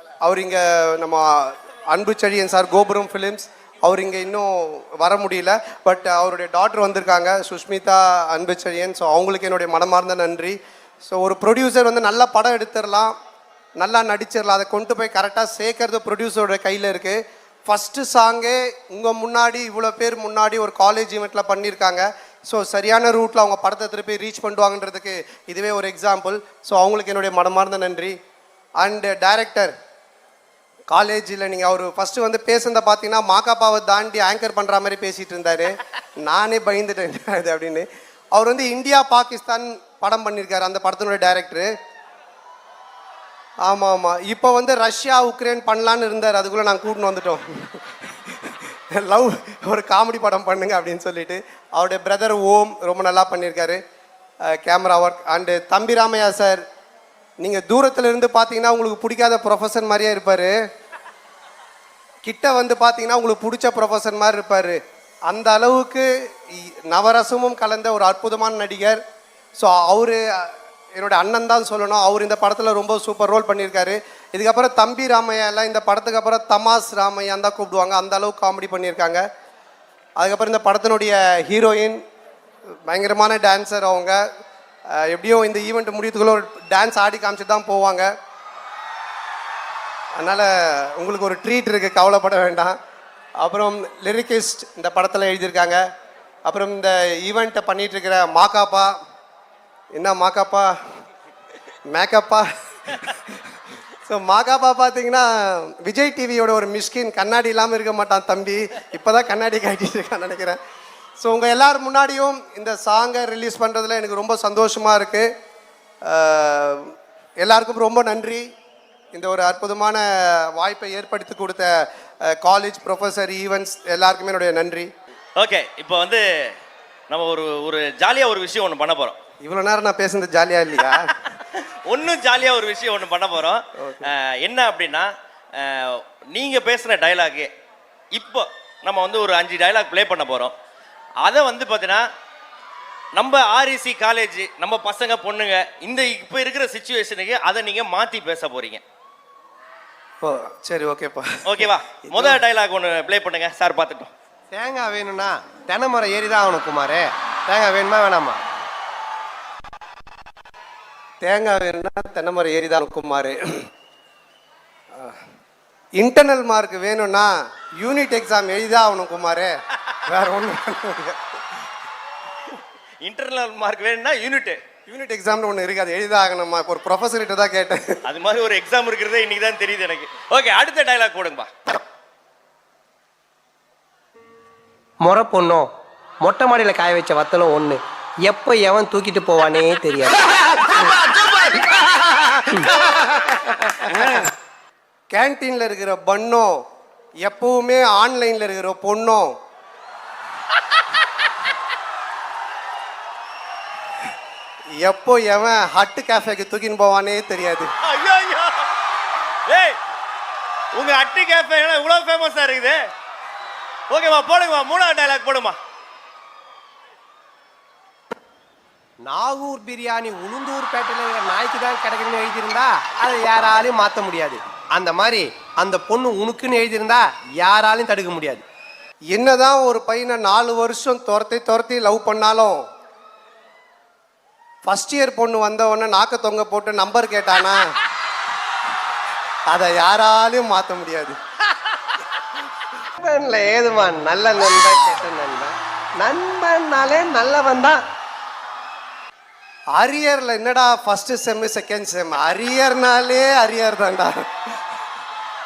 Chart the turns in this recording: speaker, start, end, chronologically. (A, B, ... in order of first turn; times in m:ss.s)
0:00.2-0:10.6 A
0:11.1-0:13.1 A
0:13.8-0:28.1 A
0:28.8-0:29.7 A
0:30.9-0:41.7 A
0:43.6-0:47.9 A
0:48.4-0:53.8 A
0:54.5-0:56.6 A
0:57.4-1:00.6 A
1:02.2-1:09.0 A
1:09.6-1:19.2 A
1:20.2-1:22.0 A
1:22.8-1:24.2 A
1:24.9-1:28.1 A
1:30.2-1:32.8 A
1:33.4-1:35.8 A
1:36.4-1:38.9 A
1:39.9-1:40.7 A
1:41.9-1:42.5 A
1:44.1-1:50.6 A
1:51.2-1:55.3 A
1:56.0-1:56.9 A
1:57.4-1:58.5 A
1:59.1-2:04.9 A
2:05.4-2:06.5 B
2:07.1-2:09.2 B
2:09.4-2:11.1 A
2:11.8-2:17.5 B
2:18.1-2:20.5 B
2:21.2-2:22.0 B
2:23.1-2:28.8 B
2:30.2-2:32.4 A
2:31.4-2:34.1 B
2:34.5-2:38.4 C
2:41.2-2:43.4 A
2:46.0-2:51.2 A
2:53.0-2:54.6 B
2:54.9-2:58.0 A
2:58.1-3:01.5 B
3:05.0-3:05.7 C
3:06.2-3:10.1 C
3:12.6-3:14.2 A
3:15.1-3:16.6 A
3:17.2-3:19.3 A
3:24.8-3:27.7 A
3:27.8-3:28.6 B
3:29.5-3:29.8 B
3:30.7-3:32.8 B
3:33.9-3:35.6 B
3:39.0-3:48.4 C
3:49.1-3:52.6 A
3:54.6-3:57.6 A
3:59.5-4:01.2 A
4:03.0-4:07.8 C
4:09.7-4:14.2 A